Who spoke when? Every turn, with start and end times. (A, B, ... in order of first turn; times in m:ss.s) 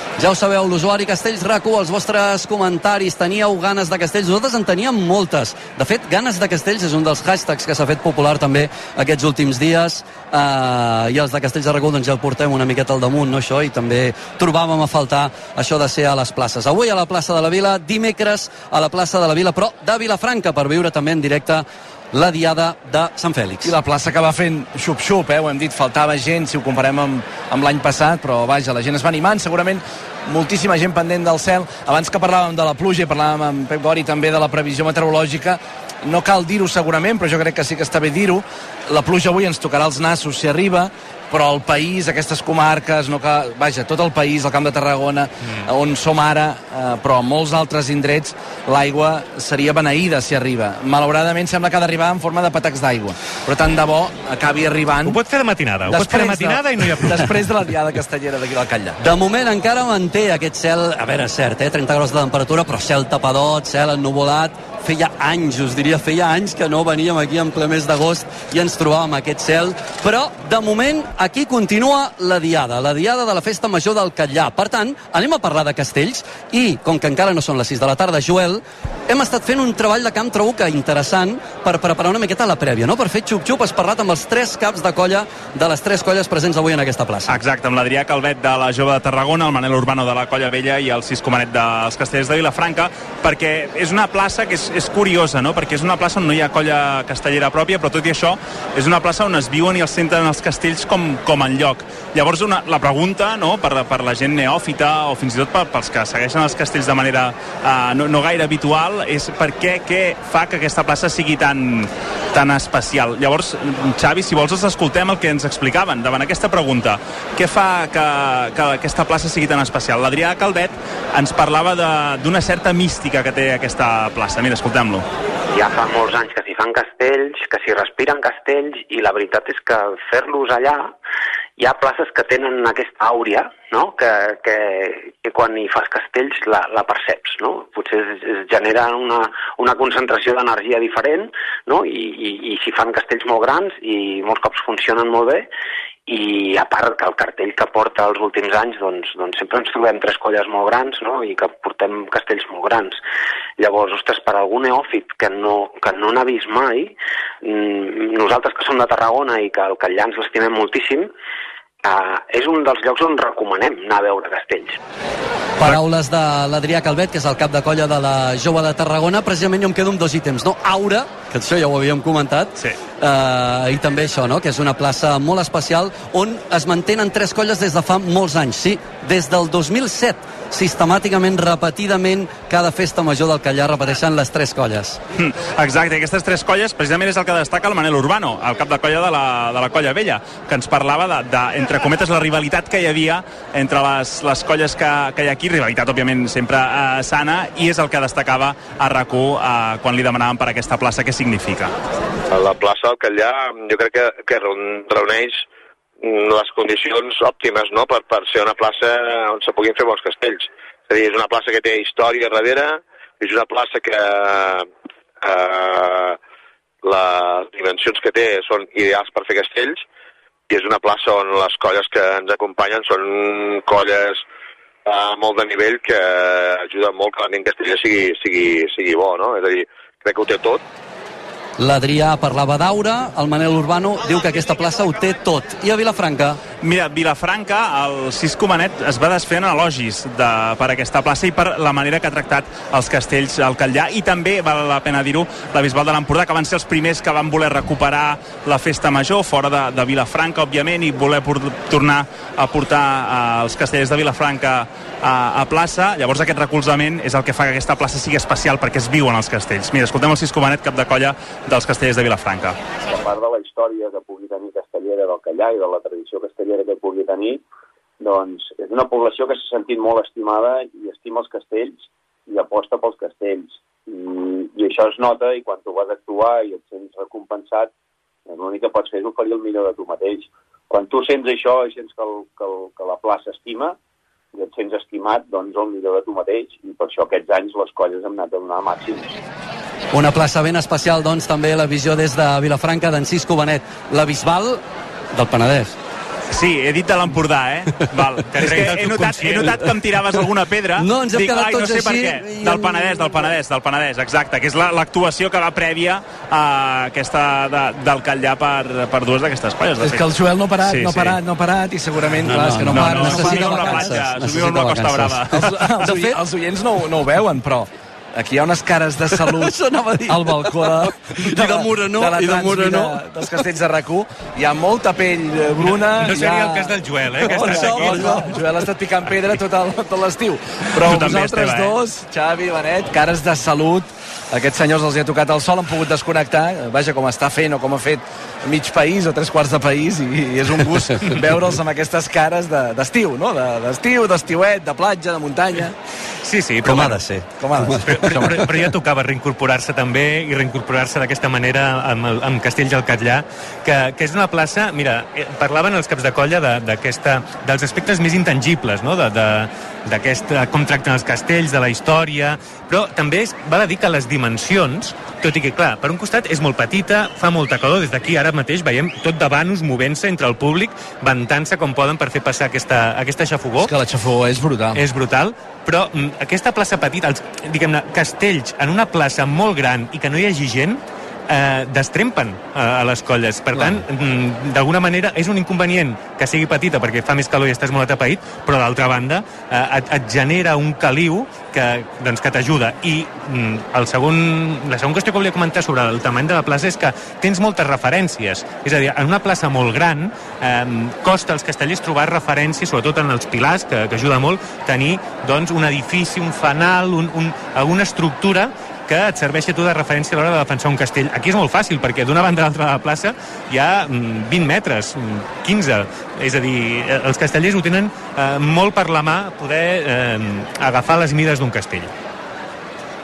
0:00.2-0:23.7 A
0:23.6-0:55.2 B
0:55.0-0:57.3 C
0:55.9-0:59.0 B
0:59.0-1:27.4 A
1:27.3-2:05.0 D
2:05.5-2:10.9 E
2:11.6-2:25.4 E
2:26.1-2:33.0 E
2:33.6-2:41.1 E
2:41.8-2:44.8 E
2:45.6-3:05.0 A
3:05.1-3:21.7 D
3:22.3-3:25.4 F
3:26.0-3:34.7 F
3:35.2-3:36.2 F
3:36.8-3:39.8 F
3:40.5-3:44.2 F
3:44.8-3:50.6 F
3:51.6-3:56.4 A
3:56.6-4:22.6 D
4:22.9-4:27.4 G
4:28.0-4:37.7 G
4:38.3-4:43.8 G
4:44.3-4:49.1 G
4:49.9-4:54.6 A
4:55.1-4:55.7 A
4:56.3-5:11.2 D
4:58.3-4:59.7 C
5:00.8-5:03.3 A
5:09.8-5:14.0 B
5:12.2-5:16.2 A
5:12.6-5:15.6 D
5:15.3-5:45.7 B
5:20.1-5:23.0 A
5:25.7-5:28.2 C
5:27.2-5:28.4 A
5:30.8-5:31.8 D
5:46.2-5:47.0 C
5:46.6-5:48.3 A
5:47.4-5:48.5 B
5:47.9-6:13.7 C
6:13.6-6:14.8 B
6:14.7-7:01.9 C
6:23.5-6:23.8 B